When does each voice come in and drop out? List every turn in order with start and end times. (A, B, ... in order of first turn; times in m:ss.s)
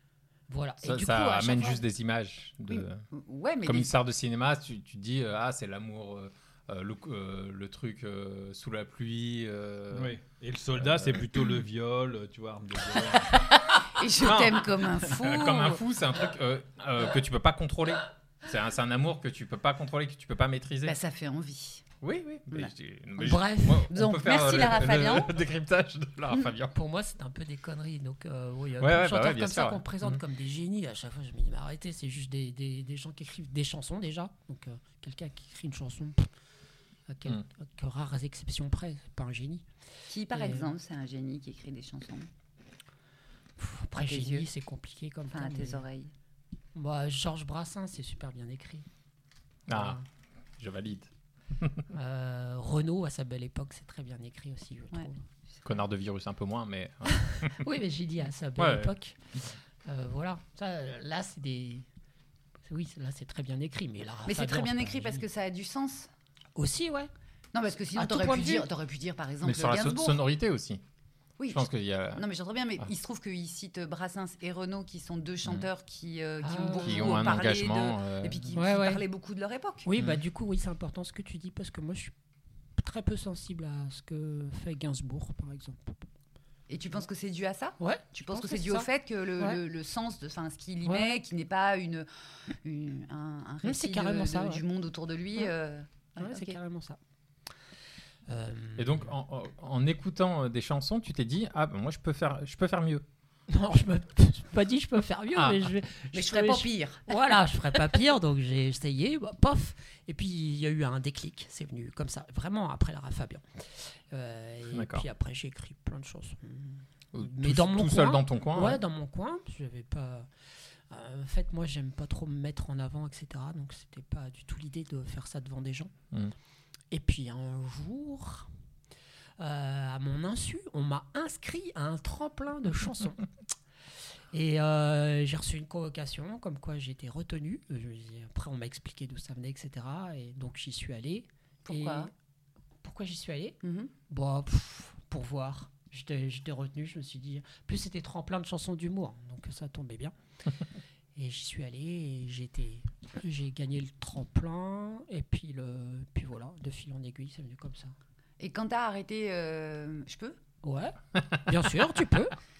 0:00.5-0:01.8 A
0:00.8-0:03.1 B
0:02.7-0:03.9 C
0:03.6-0:10.2 B
0:09.9-0:13.4 D
0:10.8-0:11.2 B
0:12.9-0:15.8 C
0:14.2-0:21.0 B
0:20.8-0:21.8 C
0:22.0-0:26.8 B
0:22.5-0:25.5 C
0:23.2-0:23.9 A
0:26.7-0:36.3 A
0:28.8-0:30.2 B
0:37.1-0:39.7 A
0:40.1-0:42.3 C
0:40.3-0:40.7 A
0:43.6-0:45.8 A
0:44.0-0:44.5 C
0:45.3-0:46.1 C
0:46.7-0:48.8 A
0:49.7-0:50.0 B
0:49.7-0:50.0 A
0:50.6-0:51.8 B
0:51.9-0:55.2 A
0:55.6-0:57.6 B
0:57.2-0:59.2 A
0:58.6-0:59.5 B
0:59.8-1:01.8 A
1:02.7-1:05.3 A
1:04.3-1:06.1 C
1:06.6-1:07.1 A
1:07.5-1:10.2 C
1:07.9-1:08.7 A
1:09.4-1:10.8 B
1:11.4-1:19.9 C
1:11.5-1:12.3 B
1:16.4-1:17.4 A
1:16.8-1:18.6 B
1:18.5-1:19.0 A
1:19.8-1:22.1 A
1:22.8-1:26.0 A
1:26.7-1:32.1 C
1:27.8-1:29.6 A
1:30.8-1:31.2 A
1:32.6-1:36.6 C
1:33.6-1:34.6 A
1:36.2-1:37.0 A
1:38.3-1:39.0 A
1:38.8-1:43.0 B
1:43.5-2:00.3 A
1:45.4-1:45.6 B
1:46.1-1:47.1 C
1:54.7-1:55.1 B
1:57.1-1:58.8 B
2:00.9-2:05.9 A
2:06.9-2:08.5 A
2:09.4-2:13.3 A
2:14.3-2:22.1 A
2:21.7-2:22.1 C
2:22.8-2:23.6 A
2:23.6-2:23.9 C
2:24.1-2:30.1 A
2:31.2-2:37.9 A
2:38.4-2:40.4 C
2:40.6-2:42.3 A